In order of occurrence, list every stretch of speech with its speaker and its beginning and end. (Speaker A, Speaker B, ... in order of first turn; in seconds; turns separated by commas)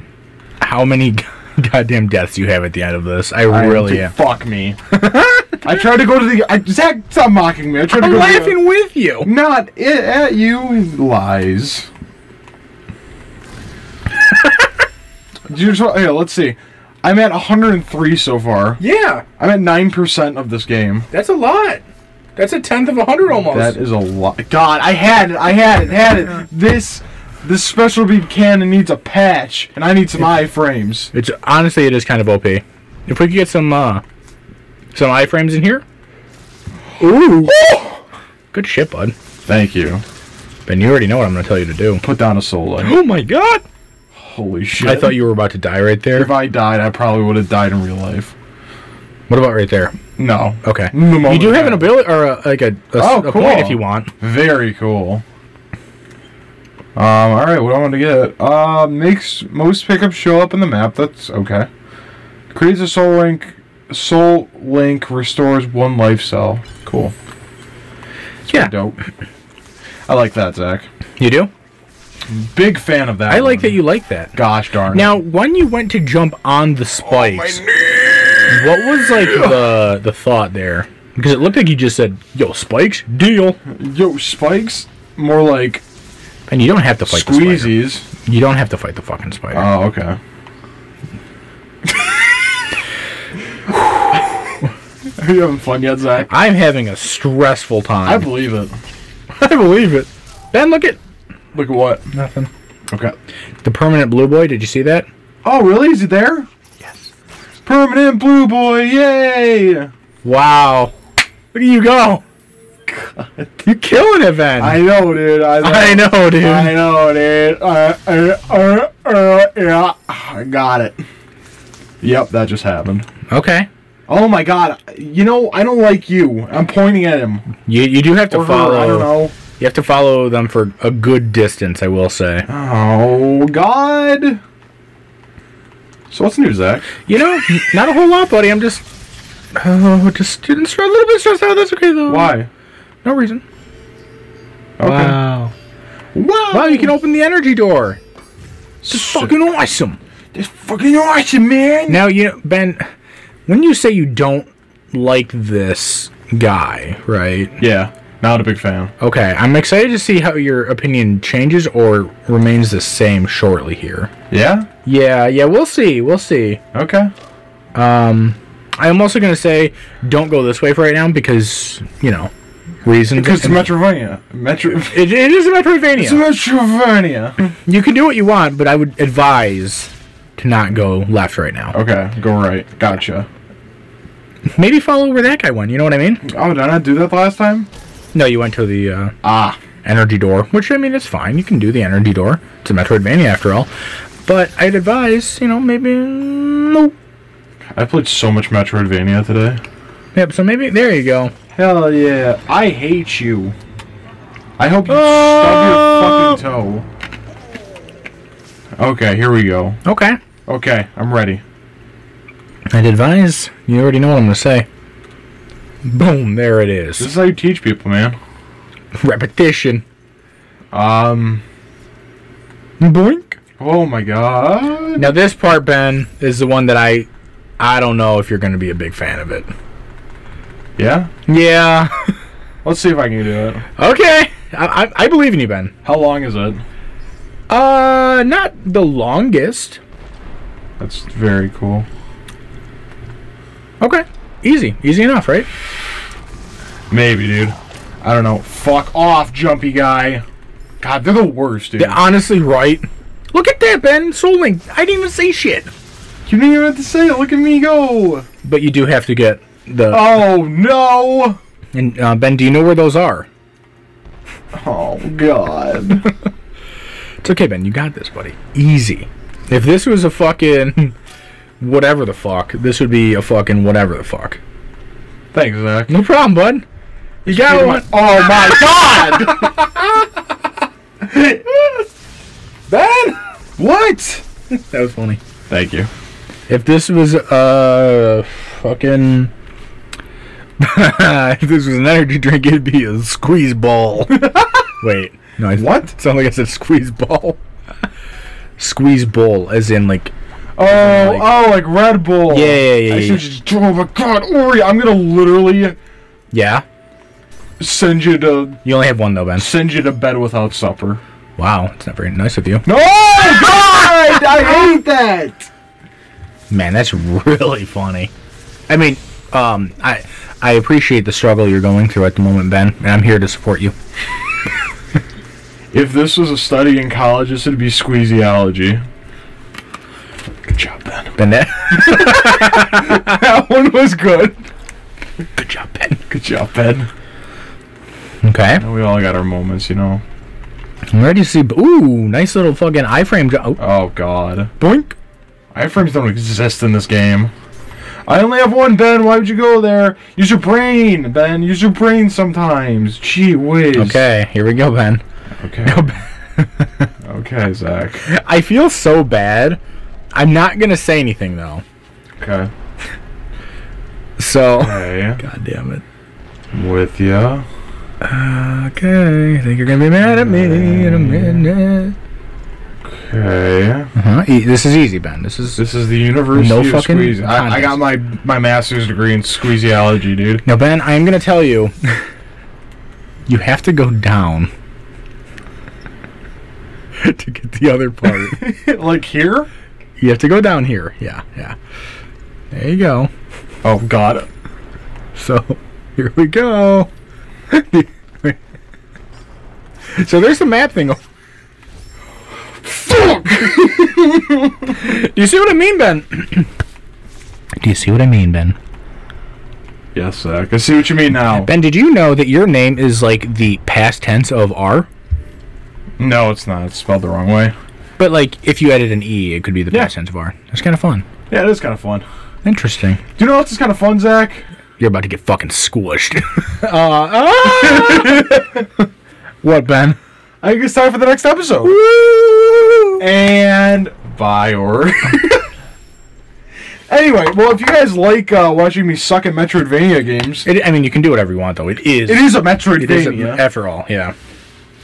Speaker A: 0.6-4.1, Speaker B: 3.5-4.9, Speaker A: 4.9-5.8, Speaker B: 5.6-8.6, Speaker A: 8.0-9.3, Speaker B: 9.2-11.9, Speaker B: 15.5-18.8, Speaker A: 18.8-19.2, Speaker B: 19.4-21.1, Speaker A: 21.1-21.8, Speaker A: 22.4-23.8, Speaker B: 23.3-31.1, Speaker A: 31.1-34.0, Speaker A: 34.9-35.8, Speaker A: 37.0-37.6, Speaker B: 37.6-37.9, Speaker A: 38.5-39.1, Speaker B: 39.5-40.0, Speaker A: 40.7-42.0, Speaker B: 42.0-43.0, Speaker A: 42.8-43.6, Speaker B: 44.2-45.2, Speaker A: 44.8-46.3, Speaker B: 46.1-48.4, Speaker A: 49.3-50.0, Speaker B: 50.2-51.9, Speaker A: 50.6-54.1, Speaker B: 53.0-55.2, Speaker B: 57.0-61.7, Speaker B: 62.5-67.1, Speaker B: 68.5-69.0, Speaker B: 70.1-70.9, Speaker A: 71.2-71.5, Speaker B: 72.3-73.8, Speaker A: 73.3-74.3, Speaker B: 74.3-75.1, Speaker A: 74.9-77.6, Speaker B: 77.1-79.6, Speaker A: 78.5-83.6, Speaker B: 83.7-85.8, Speaker A: 86.5-89.7, Speaker B: 87.1-88.1, Speaker B: 89.5-90.2, Speaker B: 95.2-96.3, Speaker A: 96.3-98.3, Speaker B: 98.0-98.8, Speaker A: 99.4-101.0, Speaker B: 101.5-102.0, Speaker A: 102.1-102.5, Speaker B: 102.9-103.2, Speaker A: 103.6-105.1, Speaker B: 105.4-106.5, Speaker B: 107.7-109.9, Speaker A: 110.2-110.9, Speaker A: 111.5-112.2, Speaker B: 112.9-113.5, Speaker A: 113.6-114.8, Speaker B: 114.6-121.0, Speaker A: 115.6-116.8, Speaker B: 122.0-123.1, Speaker A: 123.3-123.7, Speaker B: 124.1-127.5, Speaker A: 127.7-132.5, Speaker B: 128.3-129.3, Speaker B: 132.5-134.4, Speaker B: 136.1-136.9, Speaker A: 137.1-138.8, Speaker A: 139.5-142.3, Speaker B: 142.1-142.5, Speaker A: 143.0-143.4, Speaker B: 144.8-145.3, Speaker A: 144.8-145.5, Speaker B: 146.1-146.9, Speaker A: 146.5-148.0, Speaker B: 148.8-149.3, Speaker A: 148.9-150.0, Speaker B: 150.3-152.1, Speaker A: 151.9-152.9, Speaker A: 153.5-157.6, Speaker B: 157.6-158.9, Speaker A: 159.0-164.1, Speaker B: 164.3-164.7, Speaker A: 164.8-166.6, Speaker B: 166.7-167.1, Speaker A: 167.8-172.3, Speaker A: 172.8-173.7, Speaker B: 173.1-175.1, Speaker A: 174.8-176.2, Speaker B: 176.0-177.4, Speaker A: 177.7-181.7, Speaker B: 181.7-183.3, Speaker A: 184.5-186.2, Speaker B: 186.2-187.7, Speaker A: 188.1-189.2, Speaker B: 189.2-189.6, Speaker A: 189.8-193.7, Speaker A: 194.2-196.9, Speaker B: 197.8-199.6, Speaker A: 200.2-201.3, Speaker B: 201.6-203.6, Speaker B: 204.6-206.9, Speaker A: 204.9-206.4, Speaker B: 208.8-209.8, Speaker A: 209.8-210.2, Speaker B: 210.5-211.4, Speaker A: 212.7-214.7, Speaker A: 215.8-217.1, Speaker B: 217.0-218.2, Speaker A: 218.9-219.8, Speaker B: 220.7-221.4, Speaker A: 222.8-223.4, Speaker B: 223.6-225.1, Speaker A: 225.0-227.1, Speaker A: 227.6-229.5, Speaker B: 230.8-231.1, Speaker A: 231.3-232.2, Speaker B: 232.6-233.7, Speaker A: 233.8-235.7, Speaker B: 235.8-236.6, Speaker A: 237.5-239.8, Speaker B: 240.8-241.9, Speaker A: 243.8-245.5, Speaker B: 246.9-250.2, Speaker B: 250.8-252.0, Speaker A: 251.8-255.7, Speaker B: 256.3-258.3, Speaker A: 258.4-260.2, Speaker B: 259.9-261.4, Speaker A: 261.7-263.3, Speaker B: 264.5-266.1, Speaker A: 267.2-270.9, Speaker A: 271.6-274.4, Speaker B: 275.3-276.0, Speaker A: 275.9-276.6, Speaker B: 277.3-279.6, Speaker A: 277.3-280.1, Speaker A: 282.7-283.2, Speaker B: 283.6-284.2, Speaker A: 284.5-285.2, Speaker B: 285.5-285.9, Speaker A: 286.5-289.3, Speaker A: 290.6-297.4, Speaker B: 294.1-294.7, Speaker B: 295.6-295.9, Speaker A: 298.6-300.1, Speaker B: 300.6-305.8, Speaker A: 300.7-301.3, Speaker A: 302.3-303.2, Speaker A: 306.3-306.6, Speaker B: 307.6-308.6, Speaker A: 308.6-309.5, Speaker B: 309.4-311.0, Speaker A: 311.4-312.6, Speaker B: 312.6-315.5, Speaker A: 316.5-318.1, Speaker A: 318.7-323.7, Speaker B: 325.7-328.8, Speaker B: 330.5-331.2, Speaker A: 331.2-333.2, Speaker B: 331.7-334.4, Speaker A: 335.4-336.0, Speaker B: 336.1-336.9, Speaker A: 338.2-338.6, Speaker B: 338.6-340.0, Speaker A: 340.9-343.6, Speaker B: 343.6-344.5, Speaker A: 344.6-344.9, Speaker B: 345.5-347.3, Speaker B: 348.1-354.1, Speaker A: 353.8-355.0, Speaker B: 355.4-355.9, Speaker A: 355.7-356.9, Speaker B: 357.0-358.1, Speaker A: 358.1-359.6, Speaker A: 360.1-361.6, Speaker B: 362.2-362.5, Speaker A: 364.2-365.8, Speaker B: 364.6-365.2, Speaker B: 366.5-367.5, Speaker A: 368.0-372.0, Speaker B: 370.0-371.5, Speaker B: 372.9-373.9, Speaker A: 373.9-375.6, Speaker B: 375.6-380.4, Speaker A: 376.3-377.8, Speaker A: 380.4-382.1, Speaker A: 383.3-384.5, Speaker A: 387.0-388.4, Speaker B: 388.3-389.5, Speaker A: 390.0-391.6, Speaker A: 392.5-393.1, Speaker B: 393.6-394.3, Speaker A: 395.2-396.9, Speaker A: 397.5-398.4, Speaker A: 399.9-401.0, Speaker B: 402.7-404.5, Speaker A: 403.6-403.9, Speaker A: 404.7-406.5, Speaker A: 407.6-408.6, Speaker B: 409.9-411.5, Speaker A: 411.3-414.9, Speaker B: 416.0-417.6, Speaker A: 418.0-421.1, Speaker B: 421.3-422.1, Speaker A: 422.4-423.0, Speaker B: 423.2-424.5, Speaker A: 424.8-428.4, Speaker B: 427.5-428.6, Speaker A: 429.4-430.0, Speaker B: 430.4-431.8, Speaker A: 431.6-433.0, Speaker B: 433.0-435.4, Speaker B: 436.9-440.5, Speaker A: 440.4-444.1, Speaker B: 442.1-443.4